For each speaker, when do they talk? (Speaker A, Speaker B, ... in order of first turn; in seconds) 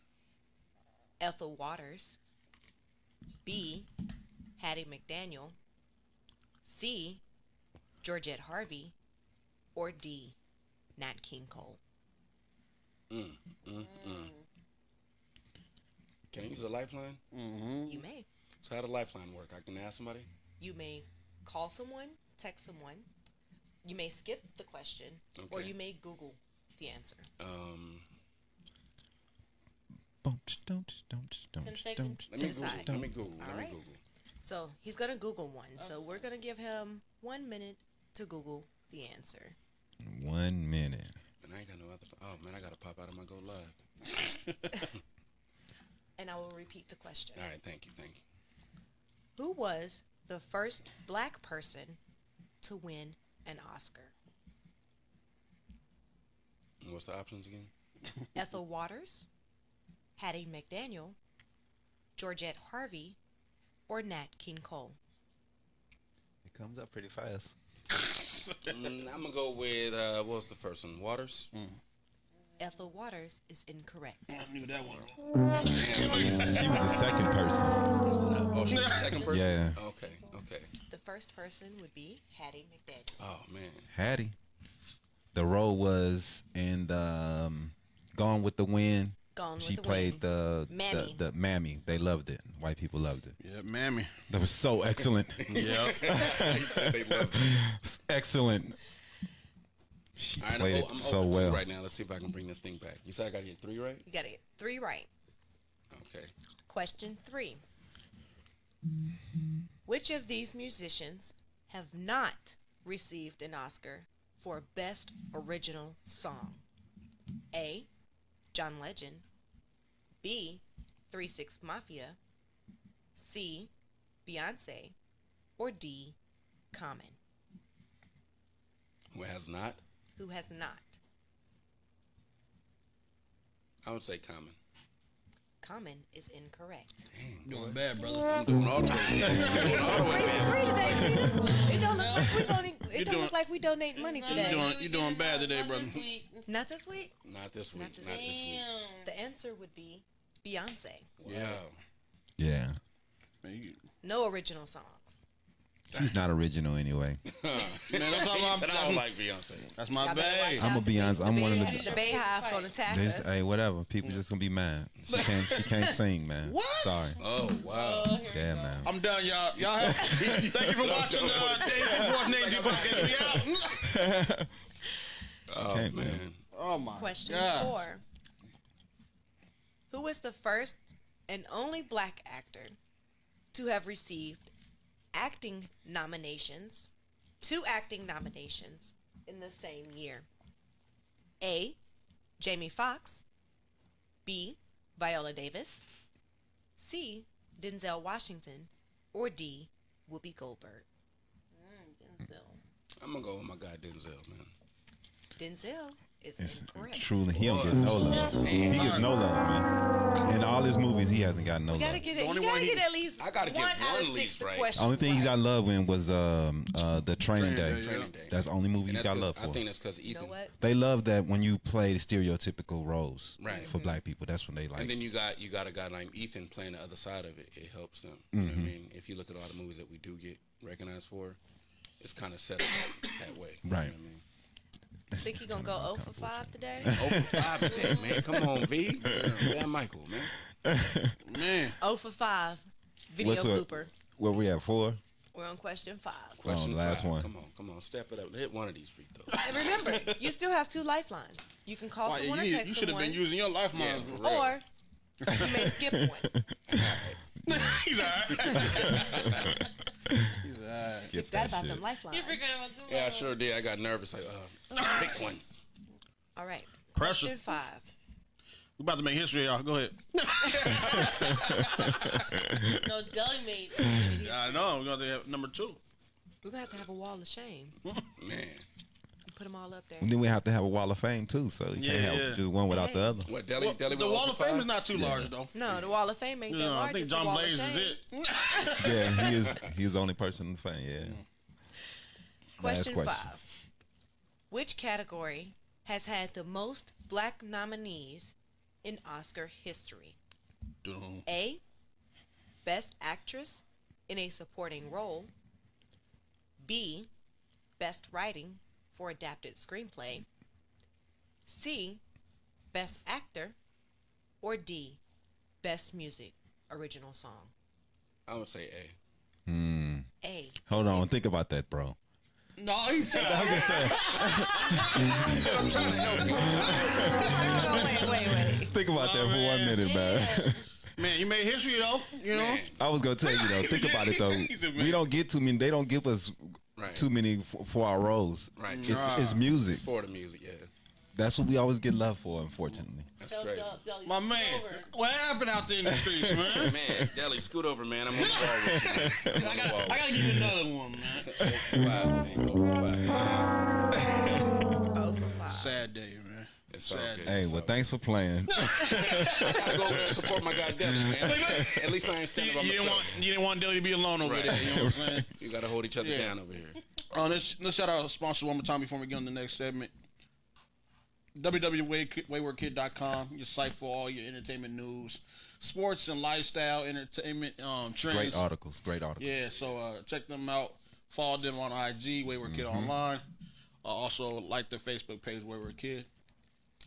Speaker A: 1.2-2.2, 3.4-3.9, 4.6-5.5, 6.6-7.2, 8.0-8.9, 9.7-10.3, 11.0-11.8, 17.9-18.3, 20.6-23.1, 23.8-27.3, 32.3-33.8, 34.4-39.5, 46.2-47.4, 49.4-52.0, 52.6-54.1, 58.4-59.3, 60.2-61.2, 62.1-63.2, 63.9-65.0, 72.6-74.3, 80.9-83.1, 89.3-91.2, 104.0-105.1, 106.7-107.6, 109.8-116.6, 117.5-117.9, 118.5-119.2, 120.2-122.2, 123.1-123.7, 124.2-124.9, 125.6-126.2, 126.7-127.2, 130.2-131.0, 135.6-137.1, 139.1-144.7, 146.5-147.1, 147.7-148.4, 149.0-151.1, 154.0-155.2, 159.9-163.3, 176.9-178.0, 179.9-182.8, 183.5-184.5, 185.1-186.9, 187.4-190.3, 191.4-191.8, 192.4-193.2, 194.2-195.8, 196.8-200.8, 205.3-207.1, 211.7-215.4, 220.0-220.5, 223.4-224.0, 235.2-237.3, 241.8-243.9, 245.3-246.4, 249.4-253.2, 254.1-254.6, 255.2-256.3, 261.1-262.4, 266.3-267.9, 276.4-277.8, 279.3-280.1, 282.7-283.2, 285.5-288.0, 292.6-293.4, 294.5-300.2, 301.2-301.6, 302.6-305.3, 306.6-307.1, 307.8-310.2, 311.4-312.0, 312.7-313.6, 314.4-315.0, 315.6-317.5, 320.2-320.7, 326.9-328.8, 354.9-355.8
Speaker B: 13.1-14.3, 16.3-17.2, 18.6-20.3, 25.4-25.7, 27.4-28.1, 32.3-34.0, 41.4-43.8, 47.3-48.2, 56.8-57.7, 68.6-71.5, 75.6-77.0, 77.7-80.7, 83.2-83.9, 95.4-97.6, 100.4-104.0, 105.9-106.3, 129.1-129.8, 133.8-134.6, 137.1-141.3, 147.2-148.6, 151.2-151.8, 157.2-159.7, 167.2-168.2, 169.8-173.5, 175.5-176.4, 203.0-204.5, 207.3-209.1, 213.2-214.7, 217.4-220.4, 223.4-223.7, 224.8-231.4, 232.0-234.2, 236.8-240.3, 246.4-249.4, 253.7-254.6, 256.7-257.2, 258.3-259.5, 262.9-265.4, 278.1-278.6, 283.2-284.7, 285.6-285.9, 318.2-318.9, 320.7-321.1, 324.8-327.7, 332.3-332.8, 336.8-337.1, 338.6-340.7, 343.2-343.7, 346.5-350.3, 351.2-353.4, 356.7-357.8, 358.6-363.2, 364.2-366.8
Speaker C: 13.8-14.4, 31.6-32.5, 35.8-36.2, 79.1-79.5, 141.3-142.6, 143.9-146.5, 148.0-149.1, 161.0-162.8, 167.6-168.9, 201.6-202.6, 208.0-208.9, 237.7-238.0, 262.1-263.3, 272.7-274.7, 329.8-330.7, 343.2-344.9
Speaker D: 17.3-18.0, 67.9-68.8, 74.3-76.9, 78.7-79.2, 93.4-94.1, 95.5-96.2, 137.4-138.5, 139.0-140.3, 142.9-143.3, 144.2-146.0, 151.2-151.6, 153.4-153.8, 157.8-159.1, 159.8-160.7, 165.1-165.9, 166.4-167.2, 168.8-174.0, 176.5-177.8, 208.6-209.1, 212.1-212.9, 217.3-218.1, 239.0-239.6, 241.2-241.8, 249.3-250.3, 252.0-254.2, 255.2-255.7, 257.4-259.5, 260.4-261.1, 264.7-265.2, 266.9-267.5, 268.8-272.2, 274.2-275.8, 281.8-282.4, 283.5-285.5, 286.5-289.5, 291.0-291.2, 300.8-301.3, 322.6-328.2, 328.9-329.9, 330.9-332.6, 333.2-335.0, 338.7-339.4, 344.0-346.8, 348.1-351.4, 355.5-357.4, 358.5-360.2, 360.9-365.3, 366.0-366.3, 367.1-369.9, 371.3-378.4, 379.2-383.2, 383.8-386.1
Speaker E: 30.2-33.1, 40.0-41.1, 66.4-67.5, 75.9-77.8, 79.3-79.8, 83.9-84.3, 85.3-93.4, 94.3-98.8, 100.2-101.6, 139.2-139.7, 140.9-141.6, 142.1-142.5, 152.4-152.8, 155.9-157.2, 160.6-162.0, 162.9-167.2, 168.3-168.9, 169.9-170.4, 173.8-174.5, 175.6-176.2, 206.4-212.0, 214.7-219.6, 220.6-224.9, 228.3-228.7, 233.6-233.9, 235.1-239.6, 240.6-241.2, 243.2-245.0, 246.4-247.3, 255.3-257.8, 258.6-260.4, 261.0-261.8, 270.7-272.9, 280.0-283.3, 284.9-285.3, 288.8-291.2, 292.6-293.2, 319.5-320.1, 320.7-322.0, 323.1-330.7, 332.8-339.8, 341.1-343.1, 345.8-347.1, 348.4-349.4, 351.4-352.0, 357.2-360.3, 360.8-361.8, 364.6-365.2, 378.1-379.4, 382.4-382.9